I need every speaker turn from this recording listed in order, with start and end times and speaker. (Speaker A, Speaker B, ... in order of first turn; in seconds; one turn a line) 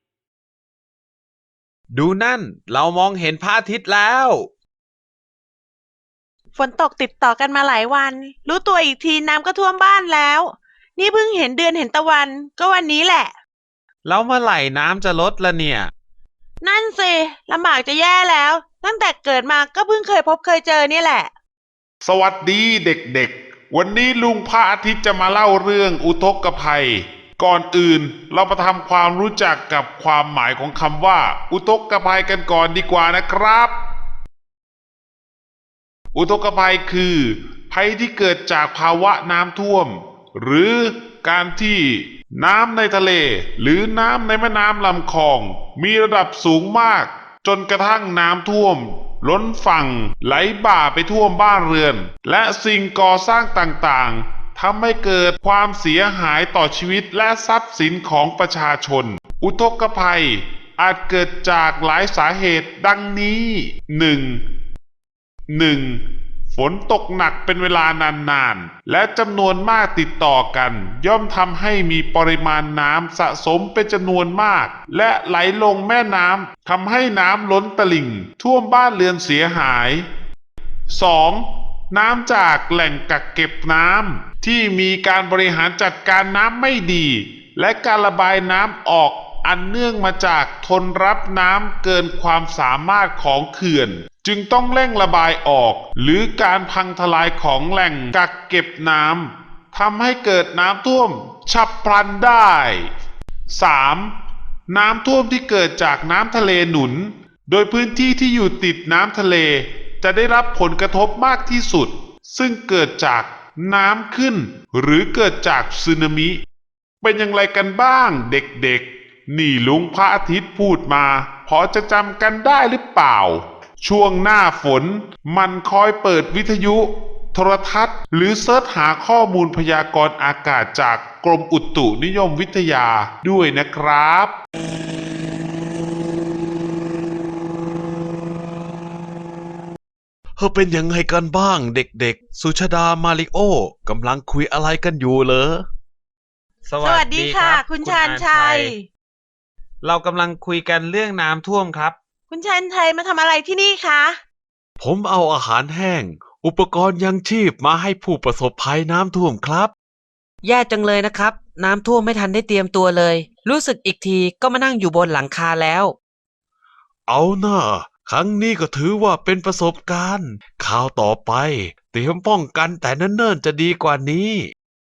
Speaker A: 1.9-4.5
Speaker B: 6.5-13.3
Speaker A: 14.0-15.9
Speaker B: 16.6-21.3
Speaker C: 22.0-33.8
Speaker C: 36.1-64.4
Speaker C: 65.5-80.0
Speaker C: 80.9-102.9
Speaker C: 103.5-104.1
Speaker C: 104.7-116.4
Speaker C: 117.0-134.3
Speaker A: 140.4-145.7
Speaker A: 146.7-148.7
Speaker B: 146.8-148.8
Speaker A: 149.8-151.9
Speaker B: 152.3-154.2
Speaker A: 154.8-159.7
Speaker D: 160.4-165.9
Speaker A: 167.1-174.5